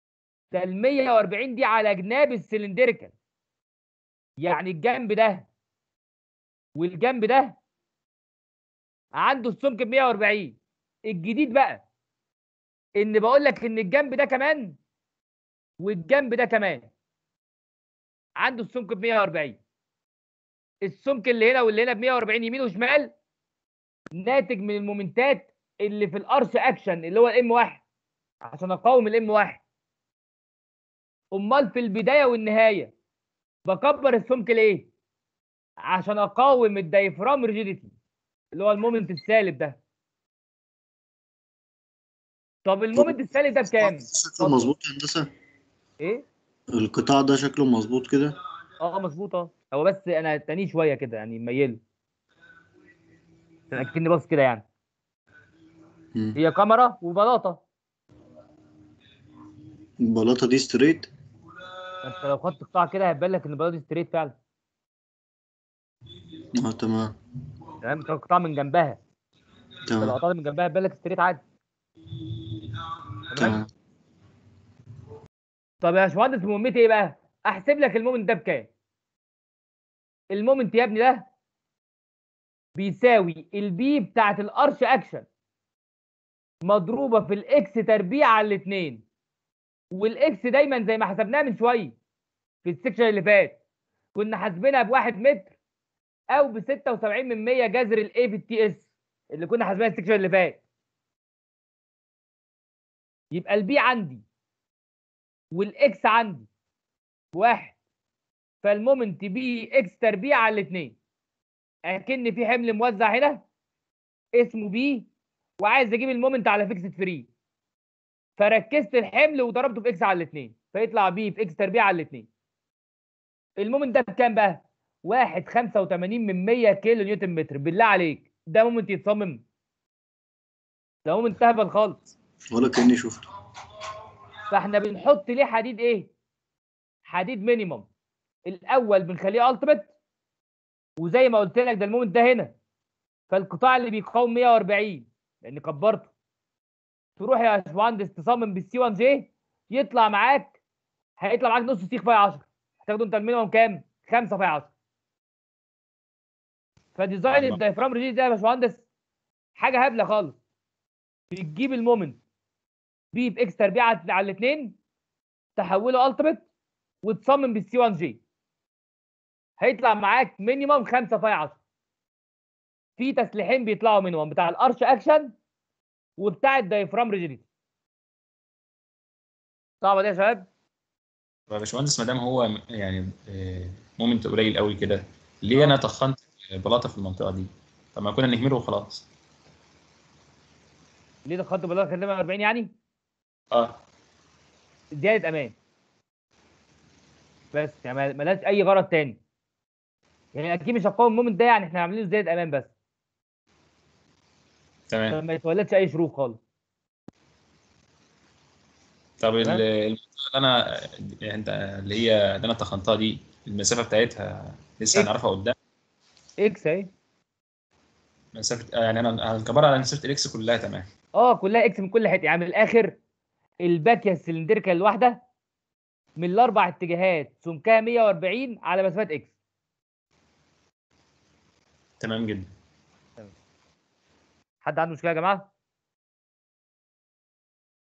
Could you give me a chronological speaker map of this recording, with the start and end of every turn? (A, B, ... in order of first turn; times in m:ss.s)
0:00.5-0:03.1 A
0:04.4-0:05.5 A
0:06.8-0:07.6 A
0:09.2-0:10.6 A
0:11.1-0:11.8 A
0:13.0-0:14.8 A
0:15.8-0:16.9 A
0:18.4-0:19.6 A
0:20.8-0:23.1 A
0:24.2-0:27.8 A
0:28.4-0:29.6 A
0:31.3-0:32.9 A
0:33.6-0:34.9 A
0:35.8-0:37.9 A
0:38.5-0:39.8 A
0:42.6-0:44.7 A
0:42.9-0:45.3 B
0:46.7-0:48.4 B
0:48.8-0:51.8 A
0:53.7-0:54.6 A
0:56.4-0:57.6 A
1:00.0-1:01.1 B
1:02.0-1:04.3 A
1:06.5-1:07.1 B
1:07.8-1:09.0 A
1:09.9-1:10.2 B
1:10.0-1:11.4 A
1:13.3-1:13.6 A
1:13.3-1:13.7 B
1:15.8-1:18.7 A
1:20.3-1:21.2 A
1:22.8-1:25.2 A
1:26.6-1:29.0 A
1:29.9-1:31.9 A
1:32.6-1:33.6 A
1:34.1-1:35.5 A
1:36.3-1:40.6 A
1:43.3-1:44.2 A
1:45.5-1:46.5 A
1:47.3-1:47.7 A
1:48.6-1:51.0 A
1:51.9-1:53.4 A
1:54.4-1:55.1 A
1:55.6-1:57.3 A
1:58.4-2:02.2 A
2:03.6-2:09.4 A
2:11.0-2:12.0 A
2:12.5-2:13.2 B
2:14.5-2:16.1 A
2:17.1-2:17.8 A
2:18.4-2:19.9 A
2:21.0-2:22.5 A
2:23.3-2:26.1 A
2:27.2-2:30.5 A
2:31.2-2:34.7 A
2:37.0-2:38.8 A
2:37.3-2:37.6 C
2:39.6-2:40.4 A
2:41.3-2:42.2 A
2:43.1-2:44.7 A
2:45.6-2:46.4 A
2:47.0-2:48.2 A
2:49.6-2:51.6 A
2:53.0-2:55.3 A
2:56.2-2:57.4 A
2:59.8-3:00.5 A
3:01.5-3:09.1 C
3:11.2-3:12.7 A
3:13.5-3:13.8 C
3:15.0-3:15.6 A
3:17.5-3:19.2 A
3:20.3-3:22.7 A
3:24.9-3:25.2 C
3:25.1-3:26.4 A
3:29.2-3:35.5 C
3:36.4-3:36.9 A
3:38.3-3:40.8 C
3:41.2-3:42.9 A
3:43.6-3:45.2 A
3:46.2-3:49.3 A
3:52.0-3:52.5 C
3:54.6-3:55.5 A